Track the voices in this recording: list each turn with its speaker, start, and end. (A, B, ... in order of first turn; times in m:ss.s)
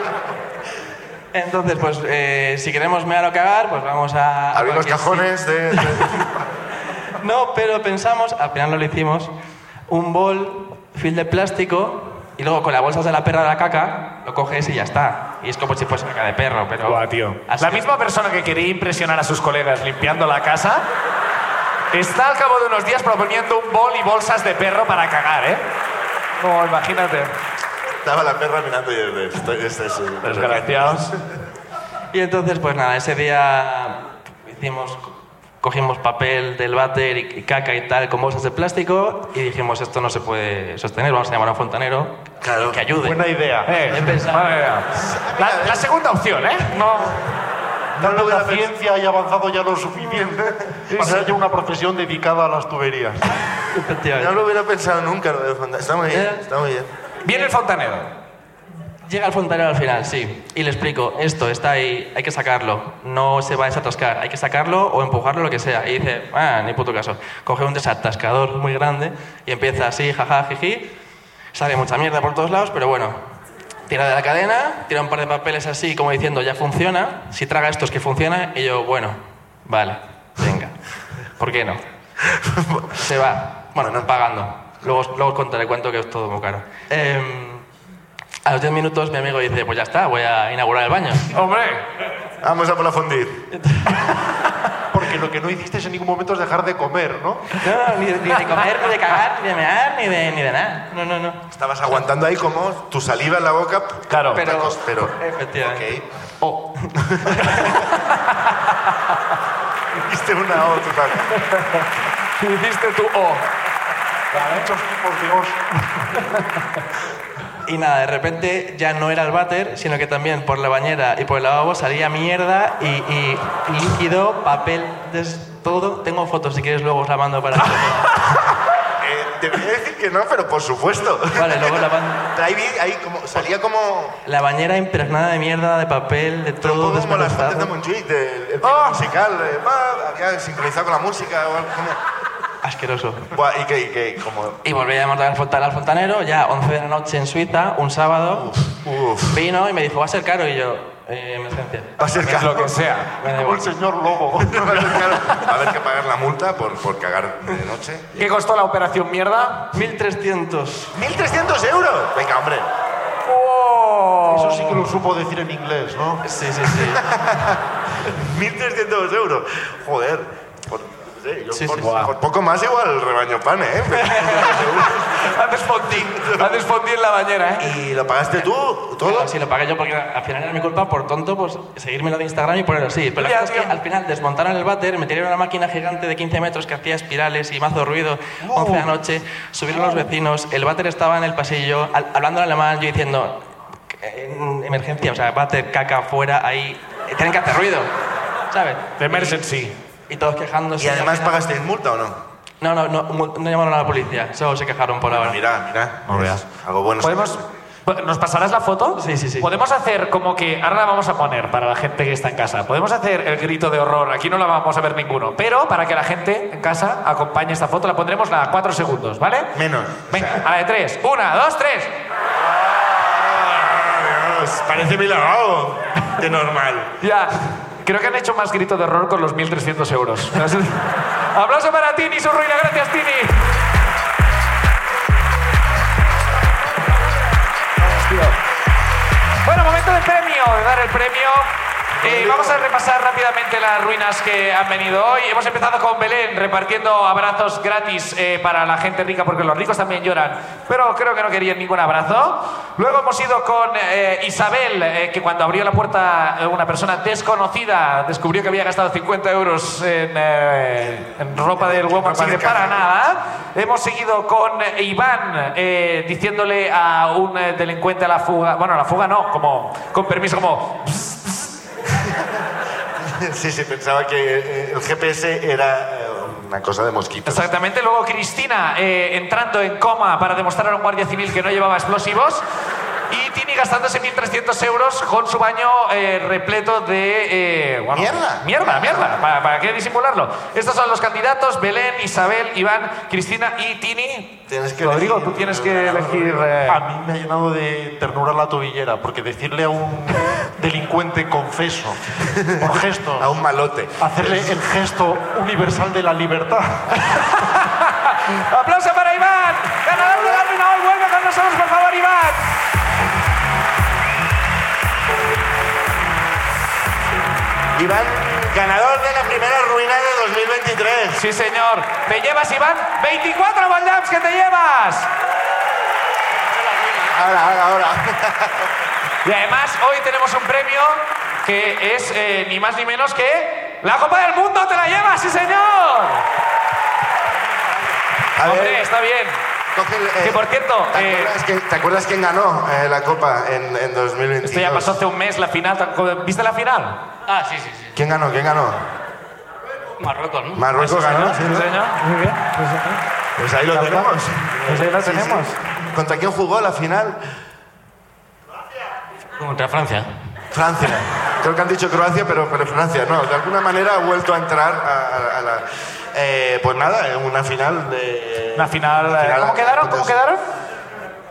0:01.3-0:06.2 A
0:04.5-0:06.3 B
0:07.2-0:09.3 A
0:09.9-0:17.9 A
0:16.9-0:20.8 C
0:21.9-0:25.6 C
0:26.4-0:27.3 C
0:28.0-0:31.1 B
0:30.2-0:31.1 C
0:32.1-0:43.3 A
0:42.4-0:42.8 B
0:43.0-0:44.2 D
0:43.7-0:47.2 C
0:43.9-0:44.5 A
0:44.9-0:45.8 B
0:48.0-0:48.6 C
0:48.0-0:53.3 D
0:50.9-0:51.3 C
0:53.7-0:54.4 A
0:54.2-0:56.9 B
0:56.1-0:56.4 A
0:57.2-0:58.1 C
0:57.3-0:57.5 A
0:59.0-1:10.9 A
1:11.5-1:13.2 A
1:13.9-1:20.8 A
1:21.4-1:21.8 A
1:22.5-1:23.0 B
1:23.0-1:27.7 A
1:23.8-1:24.1 B
1:28.4-1:31.3 A
1:31.3-1:31.8 C
1:32.4-1:33.4 B
1:33.5-1:34.2 A
1:34.9-1:37.6 D
1:37.6-1:41.4 A
1:41.5-1:46.1 B
1:44.1-1:44.4 C
1:44.3-1:45.9 A
1:46.7-1:47.9 A
1:47.0-1:47.8 B
1:50.0-1:51.4 B
1:51.3-1:51.9 C
1:52.4-1:53.4 C
1:54.3-1:55.6 D
1:54.3-1:54.6 C
1:57.7-2:08.6 A
2:09.0-2:14.2 B
2:11.3-2:12.3 A
2:14.2-2:17.7 A
2:16.6-2:22.0 B
2:18.6-2:19.1 C
2:22.6-2:23.3 A
2:23.3-2:24.6 B
2:24.6-2:28.7 A
2:28.3-2:29.4 B
2:29.3-2:32.1 A
2:32.0-2:32.8 B
2:32.2-2:33.1 C
2:33.2-2:33.7 A
2:33.2-2:35.2 D
2:34.4-2:38.2 B
2:38.2-2:39.7 C
2:39.7-2:40.9 A
2:40.9-2:42.7 B
2:43.3-2:44.8 C
2:44.3-2:46.2 D
2:46.2-2:47.1 A
2:46.7-2:47.6 B
2:48.1-2:56.6 B
2:51.5-2:52.0 A
2:51.8-2:52.1 C
2:54.2-2:57.7 C
2:57.6-2:59.3 B
2:59.0-3:17.9 A
3:03.2-3:03.8 C
3:08.4-3:08.9 C
3:18.5-3:19.5 A
3:19.0-3:19.8 C
3:20.1-3:21.4 A
3:20.8-3:22.2 B
3:22.6-3:25.4 A
3:25.1-3:27.4 B
3:26.1-3:26.5 C
3:27.0-3:41.9 C
3:29.0-3:29.5 A
3:39.6-3:40.4 B
3:42.6-3:46.9 B
3:47.0-3:53.5 C
3:57.8-3:58.4 C
3:59.4-4:01.5 C
4:02.0-4:02.6 B
4:02.0-4:31.6 C
4:20.8-4:22.8 B
4:33.0-4:37.5 B
4:37.3-4:42.4 C
4:43.1-4:56.8 C
4:47.9-4:49.0 B
4:54.5-4:56.5 B
4:56.6-5:03.4 D
5:02.4-5:04.5 B
5:04.0-5:07.0 D
5:07.2-5:12.5 C
5:10.0-5:10.4 B
5:17.8-5:21.2 B
5:21.2-5:25.1 C
5:27.1-5:28.6 B
5:29.2-5:36.2 C
5:38.4-5:38.9 B
5:38.4-5:39.4 C
5:39.8-5:45.0 B
5:40.2-5:41.3 C
5:44.4-5:47.0 C
5:47.3-5:48.0 E
5:48.0-5:48.9 B
5:50.0-5:51.4 E
5:50.5-5:51.7 B
5:50.8-5:53.0 C
5:53.4-5:57.2 B
5:53.7-5:54.1 C
5:54.6-5:55.6 C
5:59.4-6:00.1 E
6:00.5-6:10.2 B
6:08.6-6:10.4 C